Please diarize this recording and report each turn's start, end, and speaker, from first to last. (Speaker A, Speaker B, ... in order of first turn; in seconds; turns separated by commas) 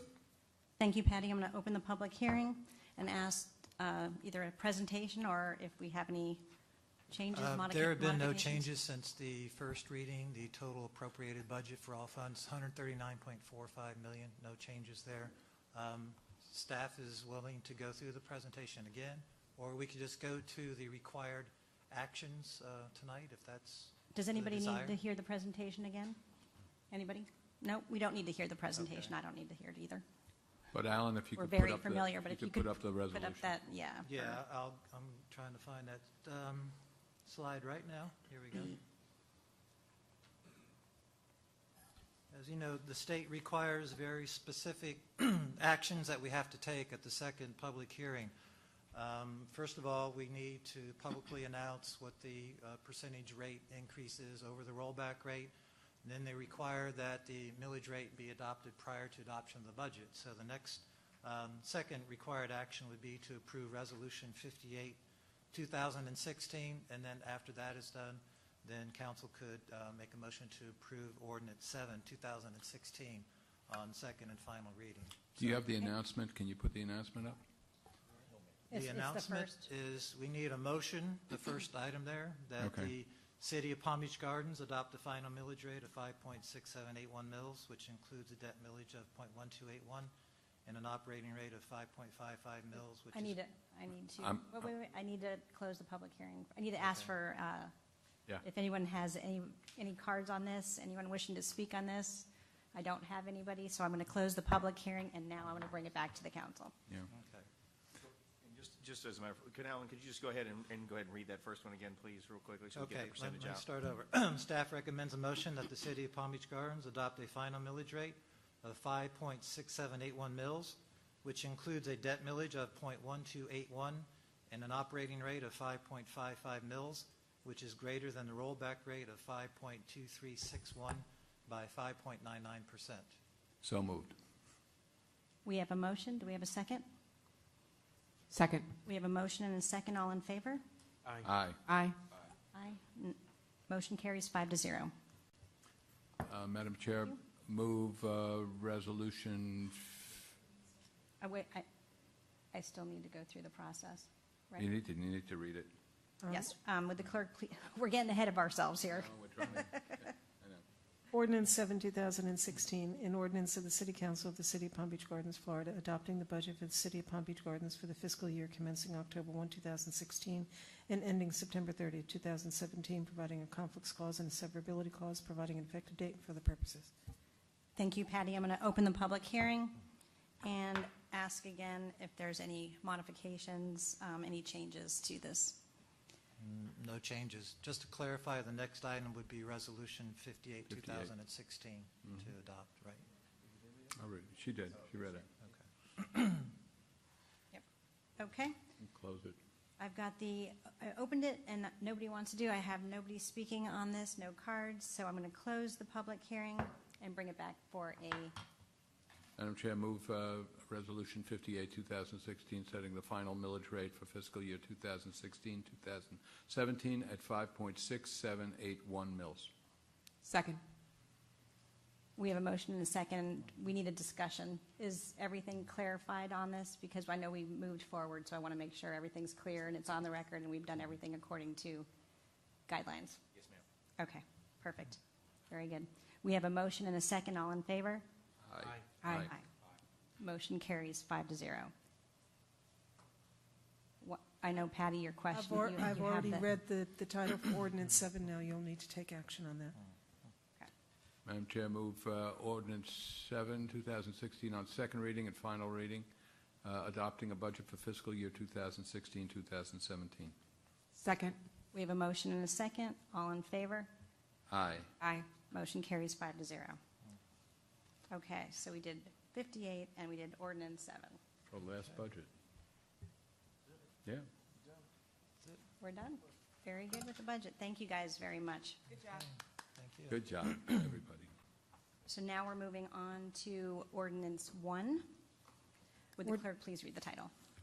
Speaker A: 0.8-6.4, Speaker A: 7.1-8.7, Speaker B: 7.3-25.0, Speaker A: 24.1-26.2, Speaker A: 26.9-30.0, Speaker B: 28.8-29.1, Speaker C: 30.7-33.5, Speaker A: 31.4-34.4, Speaker B: 34.0-38.8, Speaker B: 42.3-48.3, Speaker B: 48.9-55.5, Speaker B: 56.0-65.0, Speaker B: 65.5-75.6, Speaker C: 75.4-77.4, Speaker B: 78.7-90.1, Speaker A: 78.7-79.7, Speaker C: 82.6-82.9, Speaker B: 90.7-93.4, Speaker A: 93.1-97.7, Speaker C: 94.2-94.7, Speaker B: 96.8-97.1, Speaker A: 98.4-106.7, Speaker B: 107.1-107.5, Speaker D: 108.4-113.7, Speaker B: 112.7-133.1, Speaker C: 133.6-134.2, Speaker A: 135.4-136.8, Speaker E: 138.3-138.7, Speaker A: 138.8-140.6, Speaker C: 141.2-141.6, Speaker E: 141.7-142.0, Speaker A: 142.5-143.2, Speaker A: 143.7-144.9, Speaker C: 146.2-150.2, Speaker A: 151.2-151.7, Speaker A: 152.5-154.7, Speaker C: 154.6-155.7, Speaker F: 156.2-156.5, Speaker A: 156.3-160.0, Speaker C: 158.9-160.6, Speaker F: 161.1-176.9, Speaker A: 177.8-179.8, Speaker A: 180.4-185.6, Speaker B: 186.4-193.1, Speaker C: 190.7-191.1, Speaker C: 193.9-195.3, Speaker B: 195.4-196.5, Speaker A: 198.2-198.6, Speaker C: 198.8-199.4, Speaker A: 199.8-208.3, Speaker C: 209.4-219.5, Speaker E: 220.2-220.6, Speaker A: 222.2-231.9, Speaker A: 232.7-233.2, Speaker A: 234.0-235.0, Speaker A: 235.5-238.1, Speaker C: 238.5-239.3, Speaker E: 239.0-239.3, Speaker A: 240.2-241.7, Speaker A: 244.0-246.5, Speaker F: 245.3-249.8, Speaker C: 251.2-256.1, Speaker C: 256.6-260.4, Speaker E: 260.9-261.4, Speaker A: 261.7-263.9, Speaker C: 264.5-264.9, Speaker E: 265.0-265.3, Speaker A: 265.4-266.8, Speaker A: 268.1-271.2, Speaker C: 271.5-272.3, Speaker A: 275.8-278.9, Speaker B: 279.0-280.2, Speaker C: 280.1-281.3, Speaker A: 282.1-285.1, Speaker A: 286.2-287.3